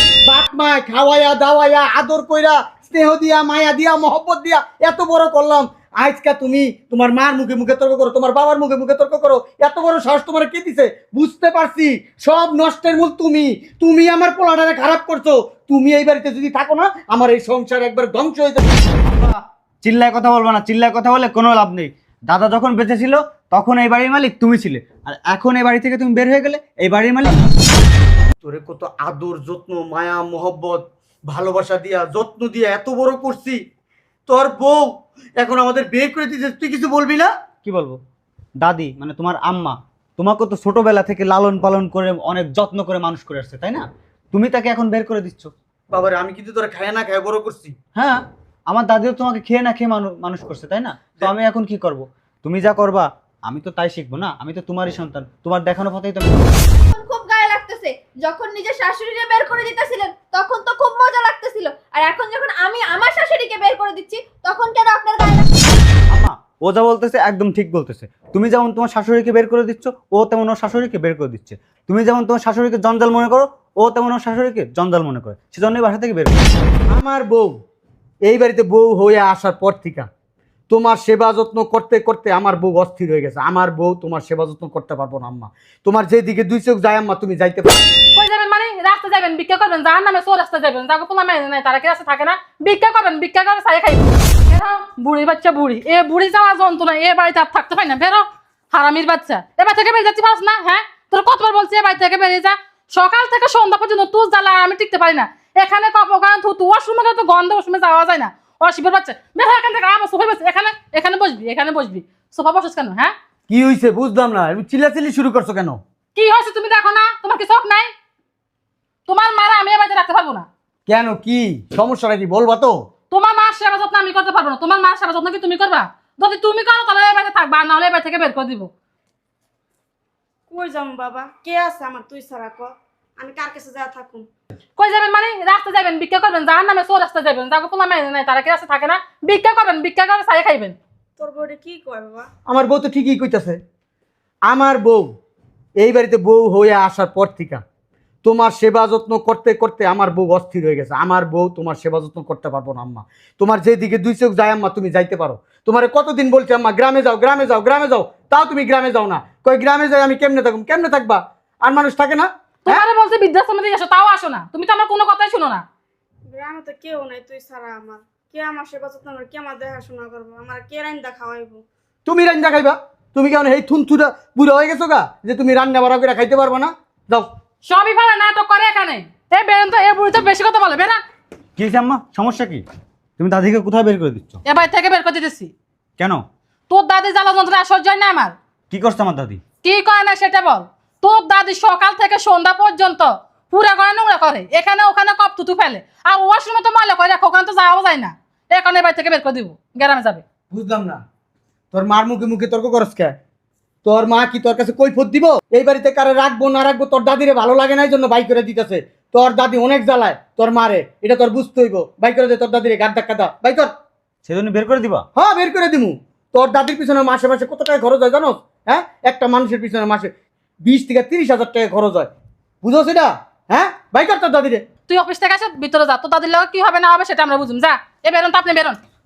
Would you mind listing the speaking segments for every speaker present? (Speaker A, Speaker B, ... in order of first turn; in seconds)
Speaker A: 0.2-18.9, 28.4-33.6, 34.3-37.3, 45.9-47.8, 76.9-77.6, 78.2-80.1, 80.7-87.8, 113.5-115.8, 120.9-122.8, 142.5-143.6, 144.5-145.1, 145.8-147.6, 148.2-162.8, 172.1-177.3, 200.5-201.0, 201.7-203.2, 203.8-213.7, 215.1-220.1, 220.6-222.1, 222.6-224.6
Speaker B: 19.1-27.5, 37.6-38.0, 38.6-45.5, 47.9-56.5, 66.1-76.4, 181.6-182.6, 183.2-184.4, 188.7-189.4, 214.2-215.0
Speaker C: 56.7-65.7
Speaker D: 88.1-113.1, 116.1-117.9, 119.1-120.5, 123.1-128.7, 134.8-140.8, 162.6-165.6, 177.6-181.0, 184.4-185.5, 186.7-188.3, 189.6-200.2, 224.9-228.8
Speaker E: 130.5-134.3, 141.2-142.3, 166.3-171.6